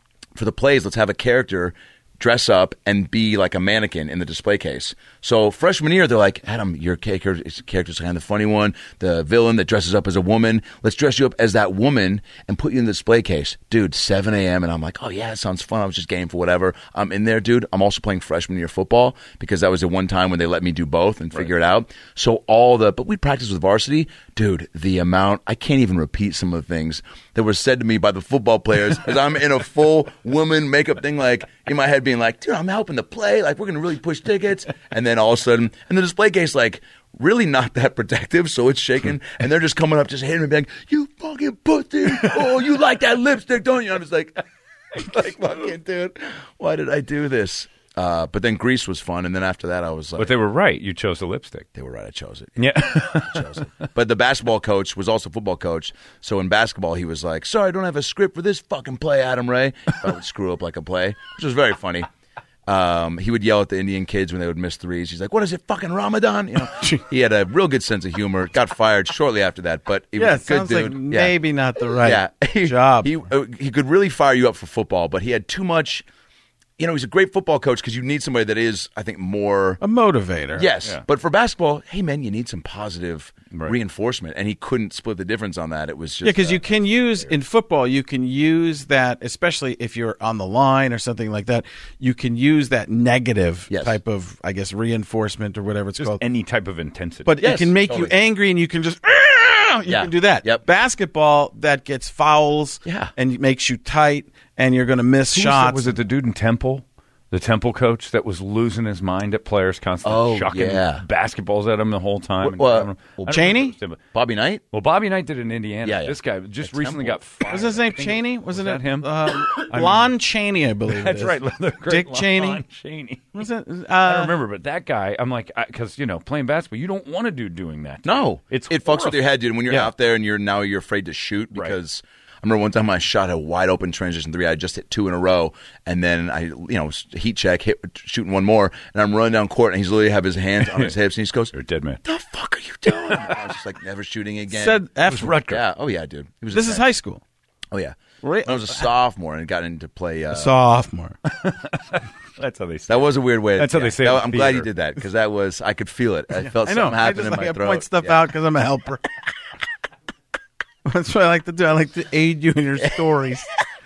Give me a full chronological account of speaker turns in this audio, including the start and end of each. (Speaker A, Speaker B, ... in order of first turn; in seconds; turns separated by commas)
Speaker A: 0.3-44.4, Speaker A: 45.0-50.4, Speaker B: 50.2-51.7, Speaker A: 51.8-62.1, Speaker B: 52.6-53.7, Speaker A: 62.7-71.3, Speaker C: 66.7-67.0, Speaker C: 70.2-73.1, Speaker A: 72.0-76.1, Speaker A: 76.8-79.8, Speaker C: 79.8-80.7, Speaker A: 80.6-86.8, Speaker B: 83.5-83.8, Speaker C: 86.2-96.2, Speaker A: 93.7-94.0, Speaker B: 96.0-97.4, Speaker C: 97.3-106.0, Speaker A: 97.4-98.1, Speaker A: 99.9-100.6, Speaker A: 102.8-103.1, Speaker B: 105.3-114.0, Speaker A: 110.0-111.0, Speaker A: 112.4-113.5, Speaker C: 113.3-113.8, Speaker A: 114.1-114.6, Speaker B: 114.7-120.1, Speaker A: 115.8-117.2, Speaker C: 117.5-122.6, Speaker B: 120.9-123.5, Speaker C: 123.3-124.3, Speaker B: 124.0-129.9, Speaker A: 128.0-141.5, Speaker B: 140.6-140.9, Speaker B: 141.5-142.0, Speaker A: 142.1-144.8, Speaker C: 144.5-145.5, Speaker B: 145.1-145.6, Speaker A: 145.4-146.8, Speaker C: 146.5-147.2, Speaker A: 147.7-150.6, Speaker C: 148.2-148.9, Speaker C: 150.3-151.2, Speaker B: 151.3-154.7, Speaker A: 152.9-158.2, Speaker C: 156.4-159.1, Speaker C: 160.8-163.5